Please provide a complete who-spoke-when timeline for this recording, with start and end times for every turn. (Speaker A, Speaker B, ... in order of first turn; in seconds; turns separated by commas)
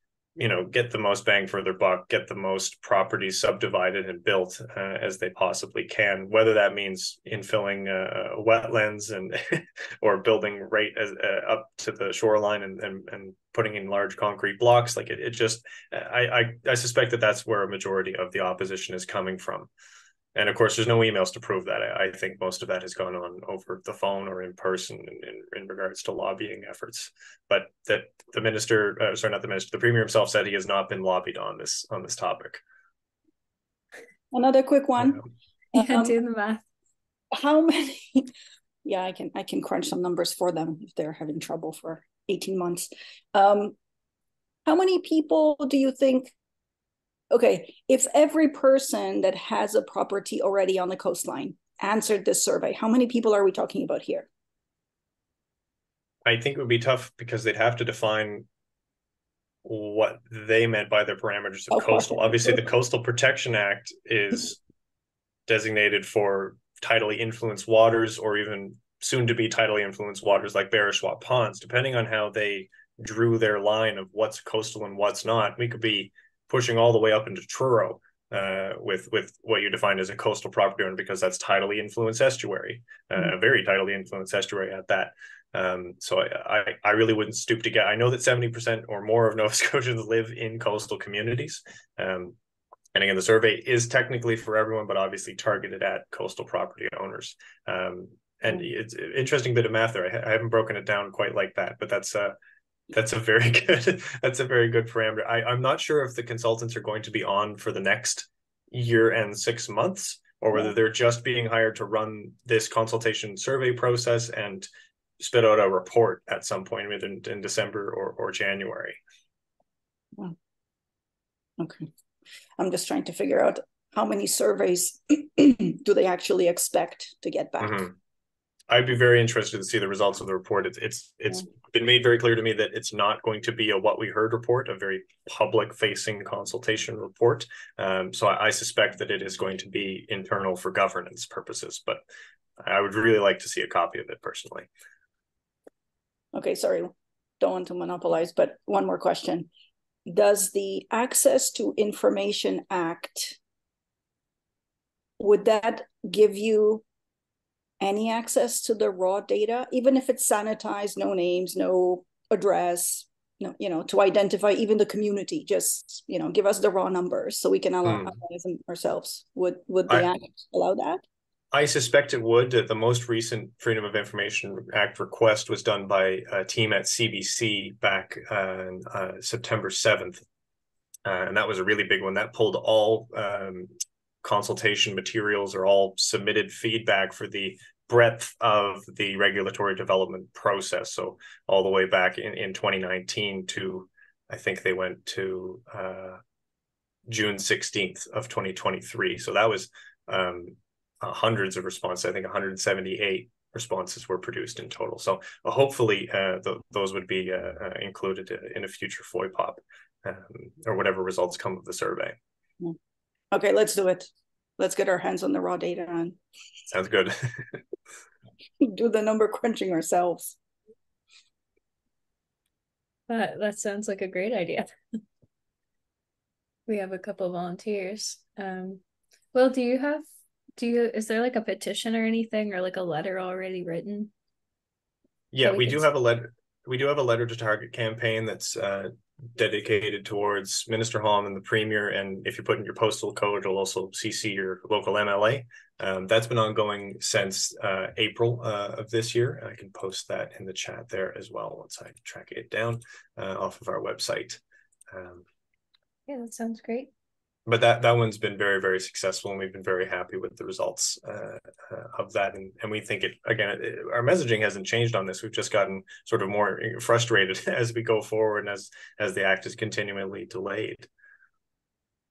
Speaker A: 0.4-19.7, Speaker A: 20.4-32.6, Speaker B: 34.3-35.2, Speaker B: 35.7-36.1, Speaker C: 35.7-36.6, Speaker B: 37.3-38.3, Speaker B: 38.9-43.7, Speaker B: 44.6-46.3, Speaker B: 47.3-54.3, Speaker A: 56.2-58.5, Speaker A: 59.6-64.6, Speaker B: 61.7-62.6, Speaker A: 65.5-92.4, Speaker A: 92.9-102.3, Speaker A: 102.9-114.7, Speaker A: 115.2-119.0, Speaker B: 121.6-121.9, Speaker B: 122.6-127.9, Speaker A: 127.6-127.9, Speaker A: 128.7-142.0, Speaker A: 142.6-144.7, Speaker B: 146.3-149.5, Speaker B: 150.1-153.4, Speaker B: 155.2-156.8, Speaker B: 157.8-171.0, Speaker A: 167.8-168.2, Speaker A: 171.5-180.2, Speaker A: 181.1-183.7, Speaker A: 184.2-196.2, Speaker A: 197.1-212.2, Speaker B: 213.3-216.2, Speaker A: 216.7-217.6, Speaker B: 218.6-220.3, Speaker C: 223.1-224.7, Speaker C: 226.7-228.8, Speaker C: 229.3-230.1, Speaker C: 230.6-234.1, Speaker A: 235.3-255.2, Speaker C: 235.4-235.9, Speaker C: 256.1-256.9, Speaker A: 257.4-270.9